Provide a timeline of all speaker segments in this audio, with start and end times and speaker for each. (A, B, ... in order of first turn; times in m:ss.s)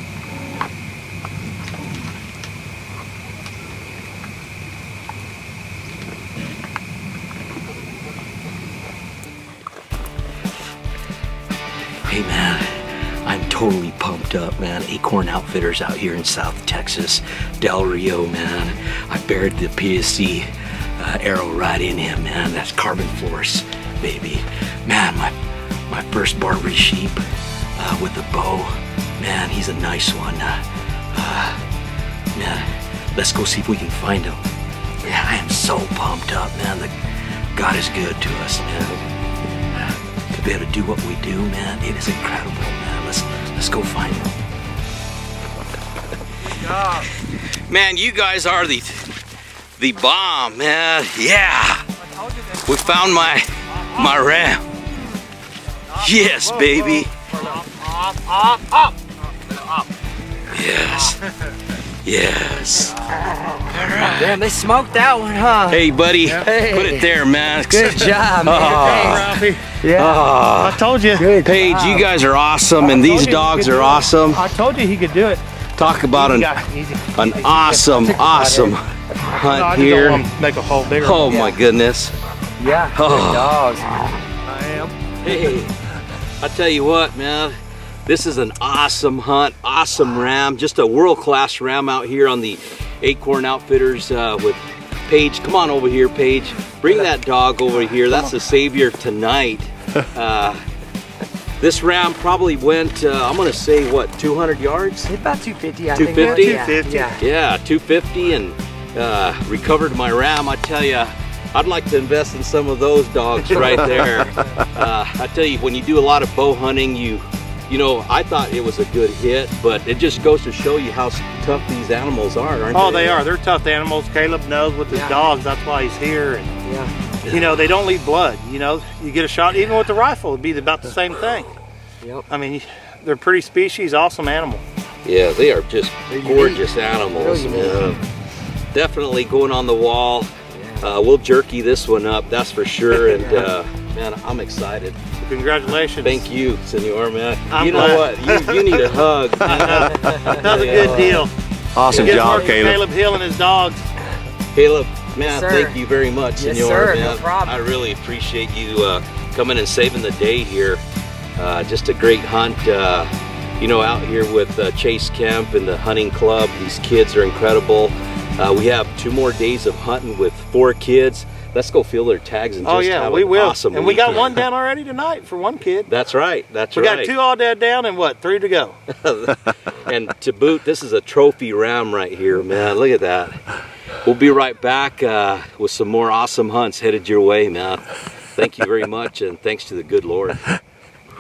0:12.0-0:25.4 A
0:25.9-0:27.2 A
0:27.8-0:31.6 A
0:32.3-0:34.5 A
0:35.0-0:37.0 A
0:37.5-0:39.1 A
0:39.8-0:44.4 A
0:46.7-0:46.9 B
0:47.2-0:49.2 A
0:49.8-0:51.9 A
0:52.2-0:52.6 B
0:52.6-0:54.7 A
0:55.9-0:58.8 B
0:56.0-0:57.1 A
1:00.5-1:01.3 A
1:02.0-1:04.4 A
1:04.1-1:07.1 C
1:05.7-1:10.8 A
1:07.7-1:10.2 C
1:08.7-1:09.7 B
1:10.6-1:11.3 B
1:11.2-1:12.1 C
1:11.4-1:14.4 A
1:12.8-1:15.4 B
1:15.8-1:16.5 A
1:16.1-1:17.0 B
1:17.1-1:20.2 A
1:17.5-1:19.4 C
1:19.4-1:21.4 B
1:21.0-1:22.1 A
1:21.3-1:21.6 C
1:22.6-1:24.1 C
1:22.9-1:23.6 A
1:24.5-1:24.9 B
1:25.2-1:25.8 A
1:26.4-1:40.6 A
1:41.6-1:45.1 A
1:45.1-1:47.2 C
1:46.0-2:03.2 A
1:46.2-1:47.1 B
2:02.7-2:06.5 B
2:04.9-2:05.3 C
2:06.6-2:06.9 C
2:07.2-2:07.7 A
2:07.3-2:11.5 B
2:12.3-2:14.6 B
2:15.0-2:18.0 A
2:16.1-2:18.0 C
2:18.7-2:25.0 A
2:20.5-2:20.9 C
2:23.1-2:23.5 C
2:25.2-2:26.2 B
2:26.0-2:31.2 A
2:27.5-2:28.8 B
2:29.5-2:31.3 B
2:30.0-2:31.3 C
2:31.8-2:32.8 A
2:31.9-2:32.6 C
2:31.9-2:33.8 B
2:34.5-2:40.8 A
2:35.2-2:35.8 C
2:36.4-2:37.6 C
2:41.4-2:54.4 A
2:52.6-2:55.9 B
2:55.9-2:57.1 A
2:56.7-2:58.8 B
2:58.9-3:03.4 A
3:04.0-3:10.5 A